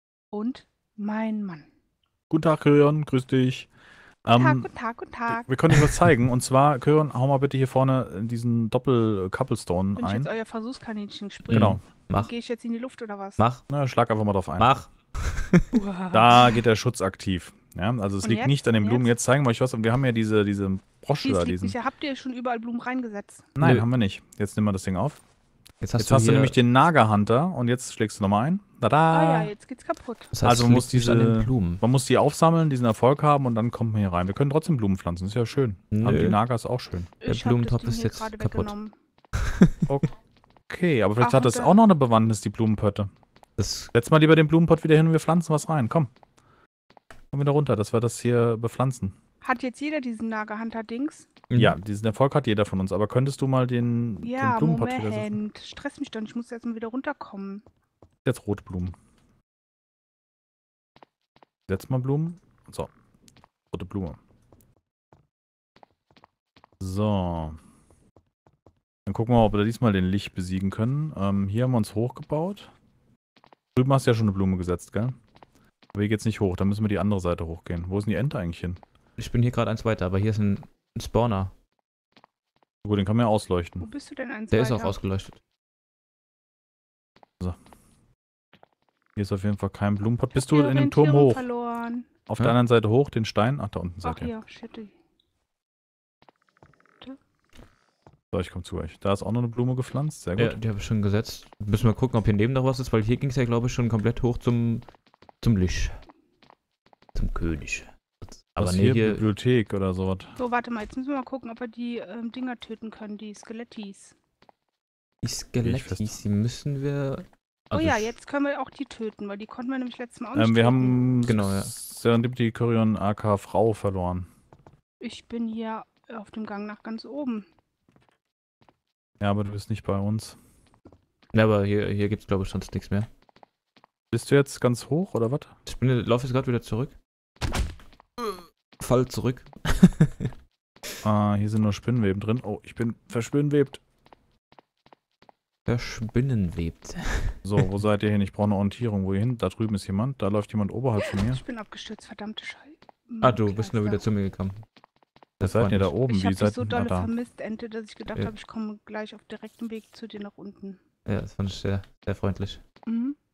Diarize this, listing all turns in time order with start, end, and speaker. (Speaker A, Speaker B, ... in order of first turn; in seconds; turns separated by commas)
Speaker A: 0.3-1.7, Speaker B: 2.3-3.7, Speaker B: 4.2-4.7, Speaker A: 4.3-5.5, Speaker B: 5.3-10.3, Speaker A: 10.0-13.4, Speaker C: 11.5-12.3, Speaker B: 11.5-11.8, Speaker C: 13.4-13.6, Speaker B: 13.7-14.8, Speaker C: 14.6-15.7, Speaker A: 15.7-16.6, Speaker B: 16.1-21.8, Speaker A: 18.2-19.1, Speaker A: 21.2-23.5, Speaker B: 23.6-25.2, Speaker C: 23.6-23.9, Speaker C: 25.8-26.6, Speaker B: 26.0-29.5, Speaker A: 29.1-30.3, Speaker C: 30.3-31.8, Speaker B: 30.4-37.1, Speaker C: 35.9-36.4, Speaker A: 37.2-39.0, Speaker C: 37.2-38.8, Speaker B: 40.7-43.1, Speaker A: 41.2-41.8, Speaker C: 43.6-43.9, Speaker B: 43.9-46.1, Speaker B: 47.3-49.1, Speaker A: 49.4-51.3, Speaker C: 51.5-51.8, Speaker B: 51.5-55.4, Speaker A: 54.2-57.6, Speaker B: 58.2-59.0, Speaker B: 61.7-62.9, Speaker B: 63.7-64.2, Speaker B: 66.8-67.6, Speaker B: 69.1-72.7, Speaker B: 73.8-75.2, Speaker B: 75.9-78.8, Speaker C: 79.2-81.5, Speaker B: 82.8-83.9, Speaker A: 83.8-85.0, Speaker C: 84.5-85.4, Speaker B: 89.2-91.5, Speaker A: 90.3-92.1, Speaker B: 92.3-94.3, Speaker A: 94.0-95.0, Speaker B: 98.3-100.6, Speaker C: 100.4-104.9, Speaker C: 105.4-105.9, Speaker C: 107.2-109.2, Speaker B: 108.6-110.4, Speaker A: 110.4-114.2, Speaker C: 115.2-118.2, Speaker B: 115.6-116.1, Speaker A: 117.7-121.1, Speaker B: 120.3-124.3, Speaker C: 121.3-121.7, Speaker A: 125.0-127.5, Speaker B: 129.2-130.4, Speaker C: 131.3-133.1, Speaker B: 134.1-135.5, Speaker C: 135.7-136.9, Speaker C: 138.2-140.3, Speaker B: 141.0-143.8, Speaker C: 145.7-147.4, Speaker B: 147.4-151.4, Speaker A: 151.0-154.0, Speaker C: 153.2-154.6, Speaker C: 155.4-155.9, Speaker B: 155.4-157.1, Speaker A: 156.1-160.8, Speaker C: 161.1-162.6, Speaker A: 162.9-163.2